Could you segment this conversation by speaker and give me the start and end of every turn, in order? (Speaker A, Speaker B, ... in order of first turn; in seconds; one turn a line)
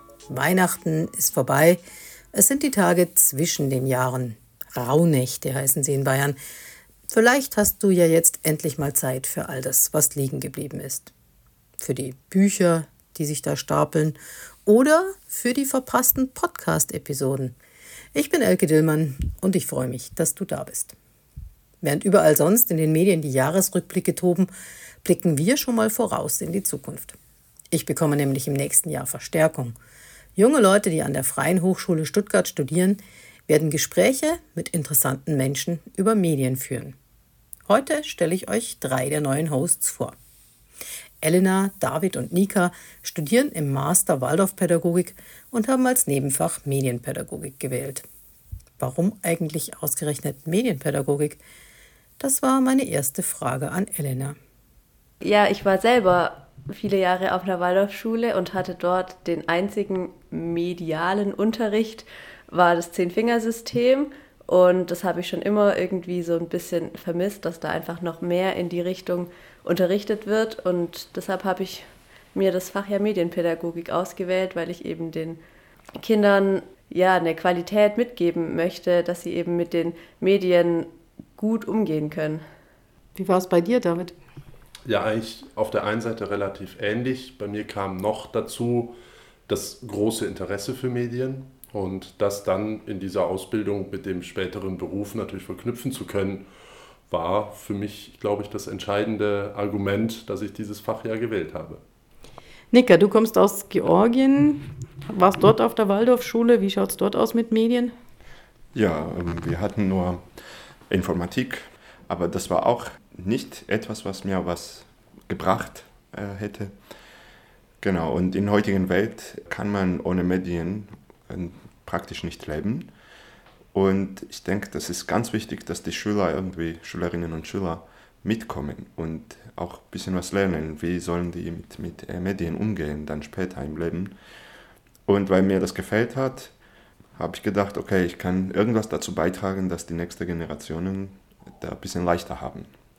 Speaker A: 0.3-1.8
Speaker A: 2.3-6.4
Speaker A: 7.1-11.1
Speaker A: 11.8-17.6
Speaker A: 18.1-21.0
Speaker A: 21.8-24.5
Speaker A: 25.0-27.2
Speaker A: 27.7-29.8
Speaker A: 30.4-37.0
Speaker A: 37.7-40.1
Speaker A: 41.2-48.0
Speaker A: 48.8-51.4
Speaker A: 52.2-54.4
Speaker B: 55.2-75.4
Speaker B: 76.0-82.4
Speaker A: 83.2-84.2
Speaker C: 84.9-89.0
Speaker C: 89.5-96.5
Speaker C: 97.1-101.8
Speaker A: 102.7-107.9
Speaker D: 108.8-110.2
Speaker D: 110.9-116.7
Speaker D: 117.8-122.9
Speaker D: 123.7-134.2
Speaker D: 135.1-136.5
Speaker D: 137.2-142.7